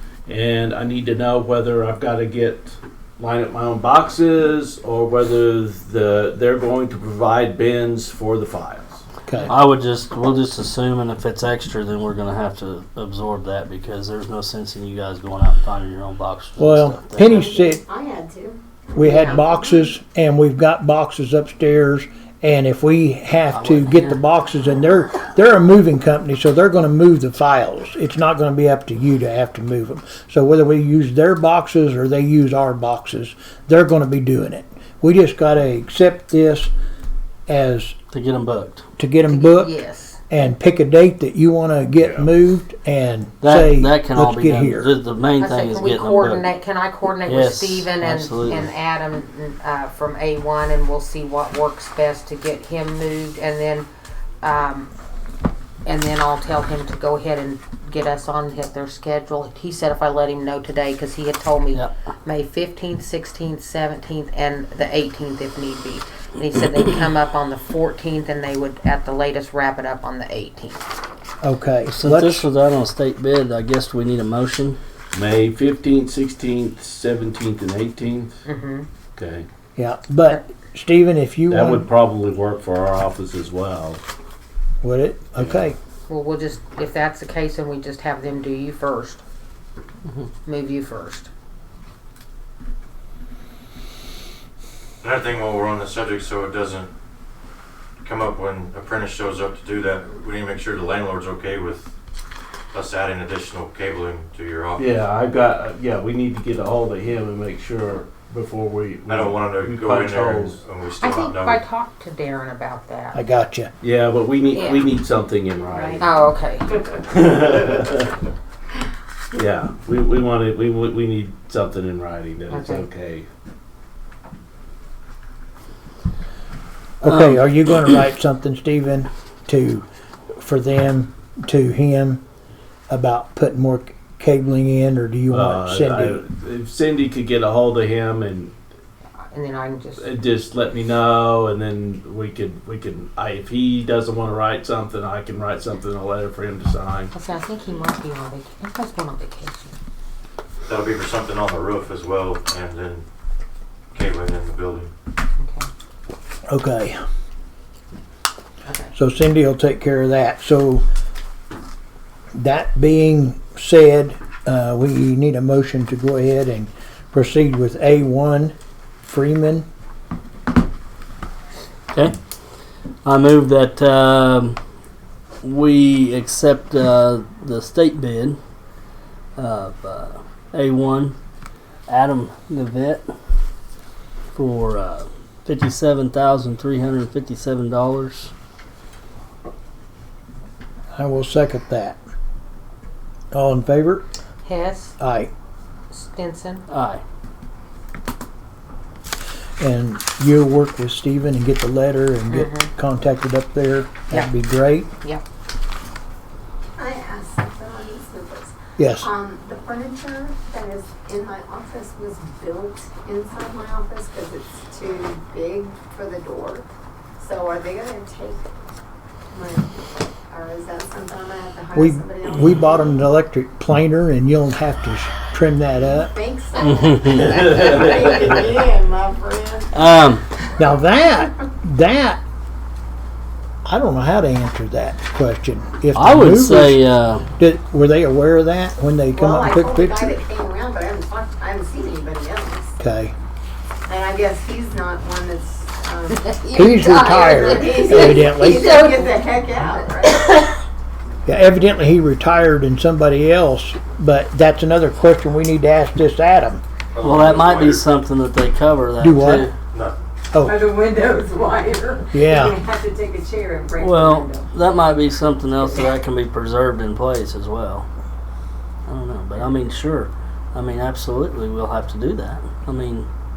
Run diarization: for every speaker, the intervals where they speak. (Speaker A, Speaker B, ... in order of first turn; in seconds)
Speaker A: 0.3-9.1, 42.0-42.3, 75.1-78.4, 79.2-79.5, 81.5-84.0, 104.8-110.6, 113.8-116.1, 117.1-118.1, 119.3-123.3, 135.3-138.5, 140.0-147.1
Speaker B: 9.3-9.5, 16.6-17.8, 18.9-36.7, 37.5-38.0, 39.0-39.7, 40.3-44.9, 71.4-72.5, 79.8-81.9, 84.8-85.8, 113.1-113.7, 127.0-129.8, 130.4-132.2, 132.9-136.2, 156.5-157.0, 158.9-160.8, 162.3-169.7, 190.9-192.0, 193.3-194.1, 195.0-195.3, 199.6-204.9, 208.8-209.1, 221.8-226.1, 230.6-232.2, 233.7-236.8, 237.4-240.2, 242.8-243.1, 246.5-248.8, 251.3-256.6, 259.0-259.5, 260.3-260.6, 262.1-262.6
Speaker C: 9.5-17.4, 23.5-24.1, 38.1-38.9, 43.4-46.5, 47.2-48.7, 71.9-74.8, 127.1-127.4, 173.1-174.6, 175.4-178.4, 179.4-181.2, 181.9-183.1, 184.3-188.3, 196.7-197.0, 226.6-227.4, 229.7-230.2, 235.9-237.2, 257.0-259.5, 263.8-267.9, 268.9-273.1
Speaker D: 17.2-19.4, 206.8-216.7, 217.2-218.5, 219.3-219.7, 220.3-223.0, 226.0-229.8, 239.2-242.8, 243.9-250.4, 260.4-264.8, 265.6-265.9
Speaker E: 39.3-40.2, 45.4-53.9, 54.4-54.9, 55.9-70.9, 78.5-78.9, 86.1-89.2, 90.5-91.3, 111.0-113.2, 114.5-114.9, 115.7-116.9, 122.5-122.9, 139.3-140.1, 147.1-149.7, 155.4-155.7, 158.7-158.9, 194.4-195.0, 195.9-196.7, 202.3-202.7, 246.2-250.6
Speaker F: 95.0-96.9, 98.0-101.9, 102.7-104.9, 109.1-111.6, 150.7-153.1, 153.9-154.9, 256.9-257.8